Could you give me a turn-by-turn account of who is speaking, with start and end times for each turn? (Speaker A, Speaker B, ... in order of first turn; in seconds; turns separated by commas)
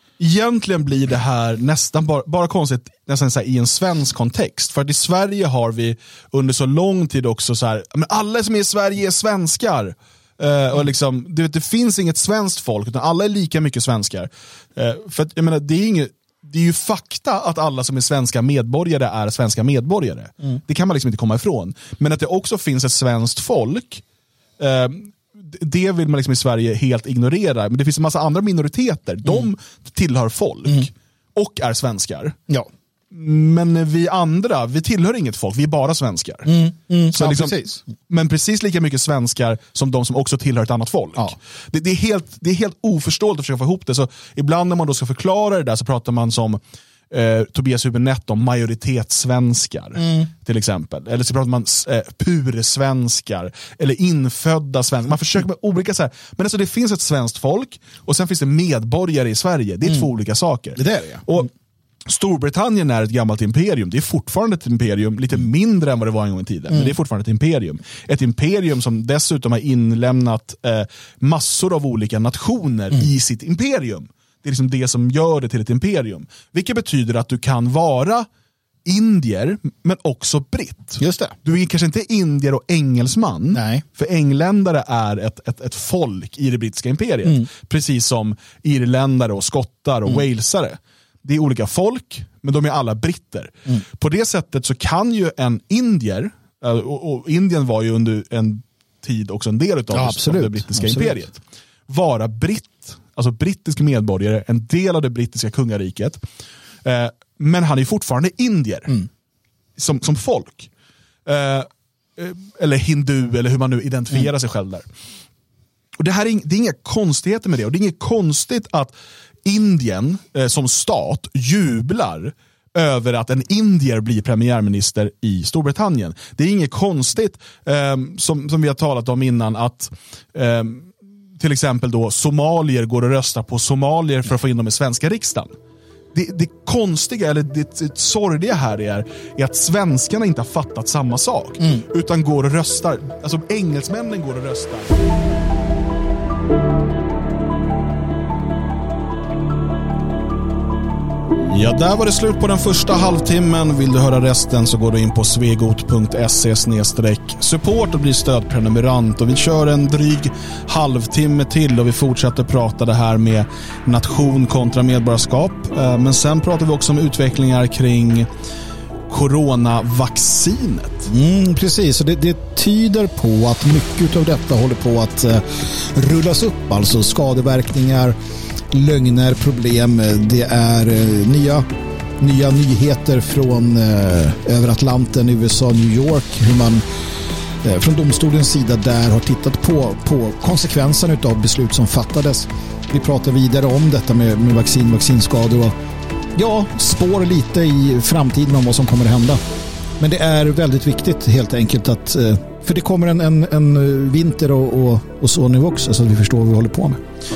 Speaker A: 0.2-24.0, Speaker A: 24.6-32.4, Speaker A: 33.1-36.6, Speaker B: 36.5-37.8, Speaker A: 37.1-61.5, Speaker B: 60.8-61.3, Speaker A: 62.1-78.3, Speaker A: 78.8-106.2, Speaker B: 81.0-81.4, Speaker B: 83.5-83.8, Speaker B: 99.9-101.2, Speaker A: 106.8-109.0, Speaker A: 109.8-110.7, Speaker A: 111.3-114.9, Speaker A: 116.0-118.9, Speaker A: 119.4-135.5, Speaker A: 136.1-145.0, Speaker A: 151.4-168.3, Speaker A: 169.1-171.1, Speaker B: 171.1-178.2, Speaker B: 178.7-181.7, Speaker B: 182.2-186.8, Speaker B: 187.6-195.8, Speaker B: 196.3-199.4, Speaker B: 200.0-207.0